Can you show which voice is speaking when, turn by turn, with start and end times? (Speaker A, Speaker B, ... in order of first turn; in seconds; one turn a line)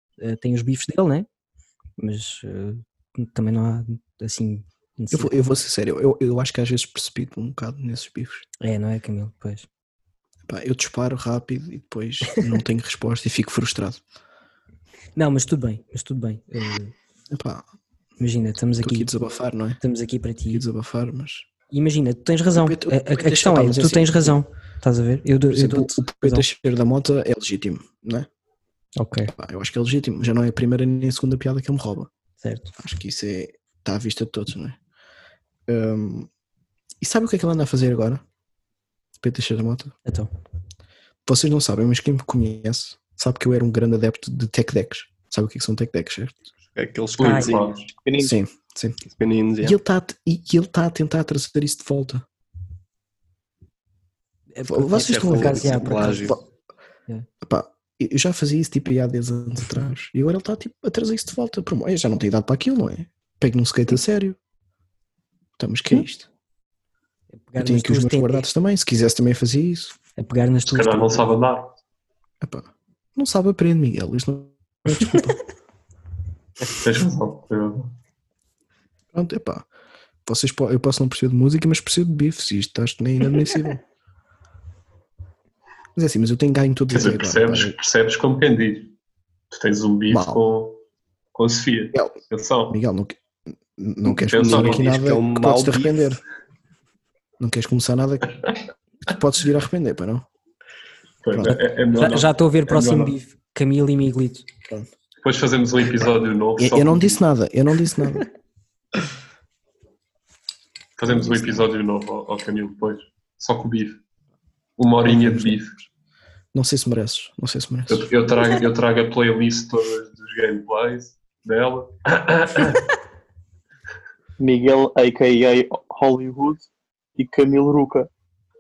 Speaker A: 0.2-1.3
Speaker A: 2.0-5.3
Speaker B: 5.1-8.5
Speaker A: 8.6-9.7
Speaker B: 10.5-14.0
Speaker A: 15.2-16.9
Speaker B: 17.3-17.6
Speaker A: 18.2-19.1
Speaker B: 18.8-19.8
Speaker A: 19.8-20.6
Speaker B: 20.5-21.5
Speaker A: 21.7-26.5
Speaker B: 22.6-24.4
Speaker B: 25.5-28.3
Speaker A: 29.0-29.3
Speaker B: 29.3-32.1
Speaker A: 32.4-32.7
Speaker B: 32.8-34.8
Speaker B: 35.7-36.3
Speaker B: 37.0-38.2
Speaker B: 39.2-39.9
Speaker B: 41.3-46.4
Speaker C: 46.7-47.9
Speaker D: 47.2-47.9
Speaker A: 47.2-47.6
Speaker E: 48.0-48.4
Speaker B: 48.2-49.0
Speaker C: 49.1-49.8
Speaker B: 49.6-52.2
Speaker A: 54.5-56.4
Speaker B: 54.7-56.4
Speaker C: 55.0-56.4
Speaker B: 57.4-64.4
Speaker B: 65.6-66.3
Speaker A: 67.3-68.5
Speaker B: 67.6-70.0
Speaker A: 70.2-71.3
Speaker D: 70.7-71.8
Speaker B: 72.4-75.4
Speaker A: 74.9-75.2
Speaker D: 76.7-77.9
Speaker B: 79.1-79.7
Speaker B: 80.3-83.8
Speaker B: 86.0-87.8
Speaker D: 86.9-88.9
Speaker D: 89.5-90.8
Speaker B: 90.1-90.4
Speaker D: 91.3-92.8
Speaker B: 92.7-96.2
Speaker D: 94.0-94.9
Speaker C: 94.4-96.2
Speaker B: 97.4-98.4
Speaker B: 99.1-100.3
Speaker D: 101.2-103.2
Speaker B: 101.3-101.6
Speaker A: 101.9-104.5
Speaker D: 105.2-107.2
Speaker B: 106.6-108.3
Speaker D: 111.0-114.0
Speaker B: 111.0-111.7
Speaker D: 114.8-115.8
Speaker B: 115.0-115.6
Speaker B: 116.5-118.1
Speaker D: 117.9-122.9
Speaker E: 124.4-128.1